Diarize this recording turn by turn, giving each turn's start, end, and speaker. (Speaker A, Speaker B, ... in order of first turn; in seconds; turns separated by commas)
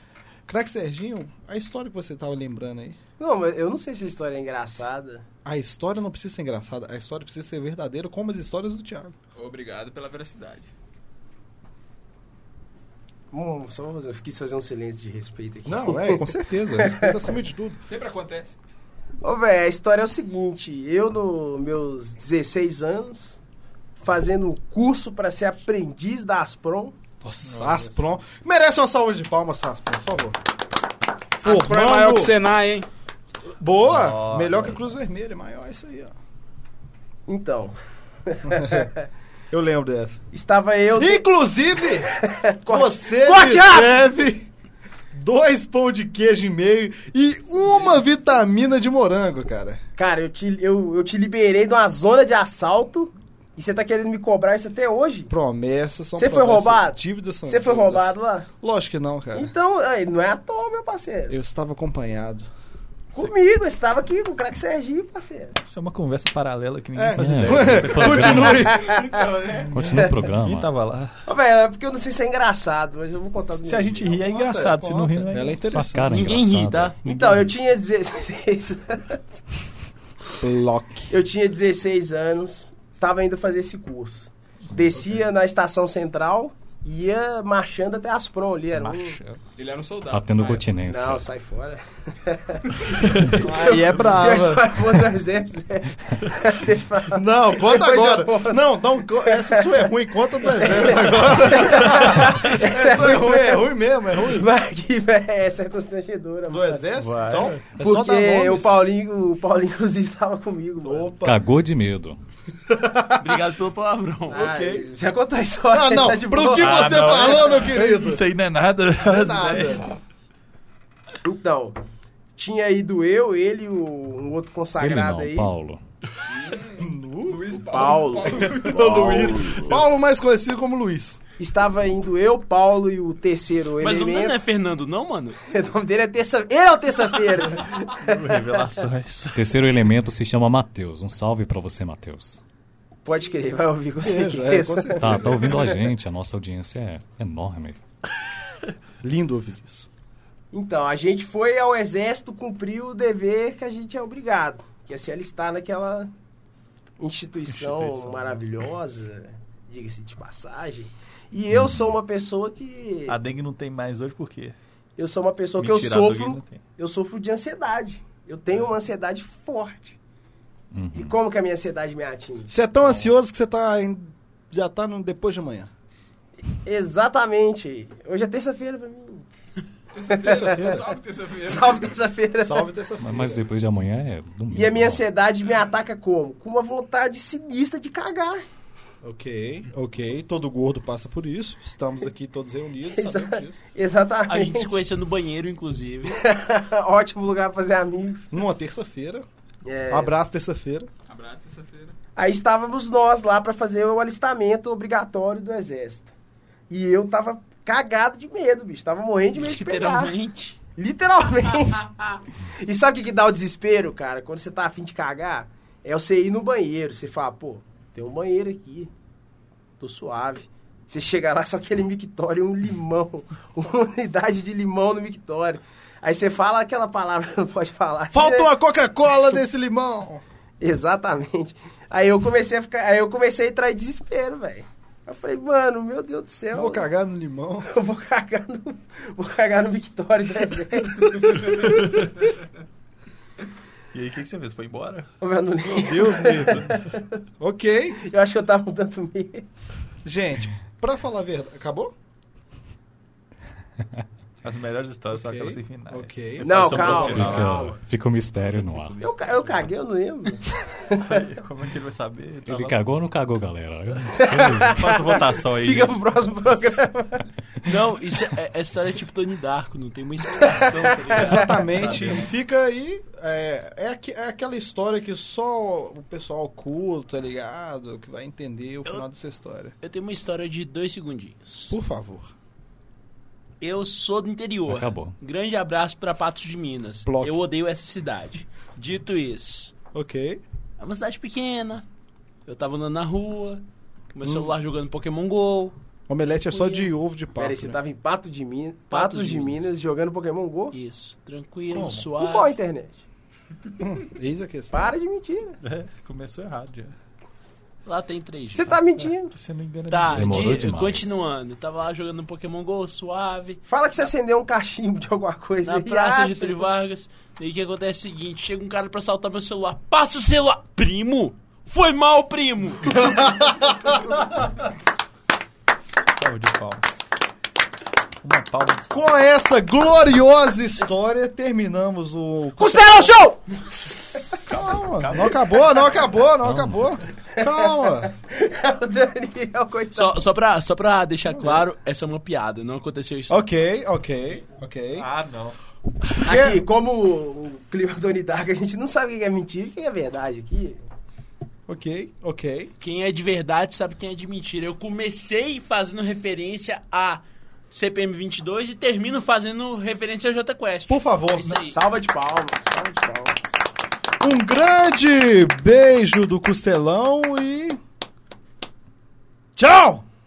Speaker A: 0.5-3.0, Speaker B: 3.2-5.2, Speaker A: 5.5-9.2, Speaker C: 9.4-10.7, Speaker B: 13.3-17.3, Speaker A: 15.7-17.8, Speaker C: 17.8-18.6, Speaker B: 19.2-23.4, Speaker B: 24.0-27.0, Speaker A: 27.2-30.4, Speaker D: 27.4-28.0, Speaker C: 31.4-32.9, Speaker A: 31.4-32.3, Speaker A: 33.6-36.1, Speaker D: 33.9-34.8, Speaker B: 37.3-39.0, Speaker A: 38.5-38.9, Speaker A: 39.5-40.2, Speaker B: 40.3-41.3, Speaker A: 40.9-44.5, Speaker B: 42.0-44.0, Speaker A: 45.1-49.8, Speaker C: 47.7-48.0, Speaker B: 50.0-55.3, Speaker A: 55.3-59.5, Speaker B: 56.2-58.5, Speaker B: 59.3-61.4, Speaker A: 61.3-62.5, Speaker B: 63.1-65.6, Speaker D: 65.7-68.7, Speaker A: 67.0-68.9, Speaker E: 67.2-68.6, Speaker C: 68.1-69.8, Speaker B: 68.1-69.4, Speaker D: 69.6-71.2, Speaker E: 69.7-70.7, Speaker B: 69.9-70.2, Speaker B: 71.3-74.4, Speaker D: 73.6-75.7, Speaker A: 74.3-76.4, Speaker E: 75.7-77.5, Speaker F: 76.1-77.0, Speaker B: 77.0-79.4, Speaker A: 80.4-81.1, Speaker B: 81.1-89.2, Speaker A: 88.8-89.4, Speaker C: 89.6-90.8, Speaker E: 90.1-91.3, Speaker B: 90.8-98.6, Speaker D: 93.0-93.4, Speaker A: 93.3-95.0, Speaker A: 97.1-104.5, Speaker B: 99.2-99.8, Speaker B: 100.5-103.7, Speaker B: 104.2-106.9, Speaker A: 106.5-108.8, Speaker D: 107.0-107.7, Speaker B: 107.8-111.1, Speaker A: 110.8-111.4, Speaker E: 111.2-112.2, Speaker A: 112.7-113.5, Speaker F: 113.2-114.4, Speaker B: 114.3-117.3, Speaker A: 114.3-114.9, Speaker A: 115.7-118.2, Speaker D: 116.6-119.9, Speaker A: 119.0-119.9, Speaker B: 121.2-121.8, Speaker B: 122.4-125.5, Speaker E: 124.8-125.8, Speaker C: 126.3-129.8, Speaker A: 126.8-131.2, Speaker B: 127.7-129.2, Speaker B: 131.4-134.4, Speaker F: 133.8-135.4, Speaker B: 135.5-138.8, Speaker D: 137.9-139.5, Speaker E: 139.3-142.4, Speaker B: 143.1-145.6, Speaker A: 144.0-145.5, Speaker E: 145.0-147.8, Speaker A: 149.0-149.9, Speaker B: 150.5-156.1, Speaker B: 157.0-163.2, Speaker D: 157.5-158.4, Speaker E: 161.5-161.9, Speaker D: 163.1-164.6, Speaker B: 165.0-170.0, Speaker D: 165.6-166.6, Speaker E: 170.7-171.2, Speaker B: 170.9-172.6, Speaker A: 172.5-175.7, Speaker B: 176.5-179.2, Speaker C: 179.9-182.0, Speaker B: 180.1-180.8, Speaker A: 180.3-180.9, Speaker B: 181.4-182.7, Speaker A: 182.4-183.4, Speaker E: 183.0-185.0, Speaker B: 184.5-188.4, Speaker A: 189.0-193.6, Speaker B: 193.0-194.7, Speaker F: 194.3-196.2, Speaker B: 196.1-198.3, Speaker A: 198.3-199.3, Speaker B: 199.7-200.1, Speaker A: 199.9-200.9, Speaker C: 201.1-202.0, Speaker B: 202.2-206.1, Speaker B: 206.7-210.1, Speaker F: 209.4-210.6, Speaker B: 210.8-218.9, Speaker B: 219.8-228.5, Speaker A: 228.1-230.2, Speaker B: 230.6-236.9, Speaker A: 236.5-237.7, Speaker B: 237.7-242.0, Speaker D: 243.9-245.1, Speaker B: 245.2-247.2, Speaker A: 245.7-246.8, Speaker A: 247.4-248.0, Speaker B: 248.0-249.5, Speaker A: 250.0-251.9, Speaker D: 254.4-257.8, Speaker A: 255.1-257.4, Speaker B: 256.4-257.8, Speaker E: 257.0-259.0, Speaker D: 258.5-259.7, Speaker B: 259.0-261.2, Speaker D: 261.0-262.8, Speaker E: 262.5-264.9, Speaker B: 264.1-267.3, Speaker D: 264.8-266.0, Speaker F: 267.6-271.5, Speaker D: 270.6-272.3, Speaker A: 271.1-279.8, Speaker F: 279.8-281.8, Speaker A: 281.7-282.3, Speaker F: 283.6-289.7, Speaker E: 284.7-285.2, Speaker A: 287.1-287.4, Speaker A: 289.9-290.4, Speaker F: 290.8-291.9, Speaker F: 292.5-293.6, Speaker F: 294.1-295.8, Speaker A: 294.2-294.5, Speaker A: 296.1-297.8, Speaker F: 296.5-296.9, Speaker B: 297.4-300.8, Speaker F: 298.9-299.7, Speaker F: 300.7-302.5, Speaker D: 301.7-302.1, Speaker B: 302.1-303.0, Speaker A: 303.8-304.9, Speaker B: 304.7-305.6, Speaker D: 305.6-306.9, Speaker F: 307.9-308.8, Speaker B: 308.5-309.3, Speaker D: 309.0-310.7, Speaker F: 309.9-313.6, Speaker E: 310.1-311.2, Speaker B: 313.7-316.7, Speaker F: 315.6-323.1, Speaker A: 322.9-324.2, Speaker D: 326.2-327.1, Speaker D: 328.2-329.0, Speaker A: 328.9-333.2, Speaker B: 332.6-334.4, Speaker D: 334.4-335.9, Speaker A: 334.4-338.1, Speaker E: 336.4-336.9, Speaker B: 337.4-340.3, Speaker F: 339.9-343.4, Speaker A: 343.3-345.1, Speaker D: 345.0-345.6, Speaker A: 346.2-346.6, Speaker B: 346.2-350.8, Speaker A: 351.7-352.7, Speaker F: 352.8-361.8, Speaker A: 360.9-361.5, Speaker B: 361.6-363.5, Speaker A: 364.2-367.8, Speaker A: 369.6-370.1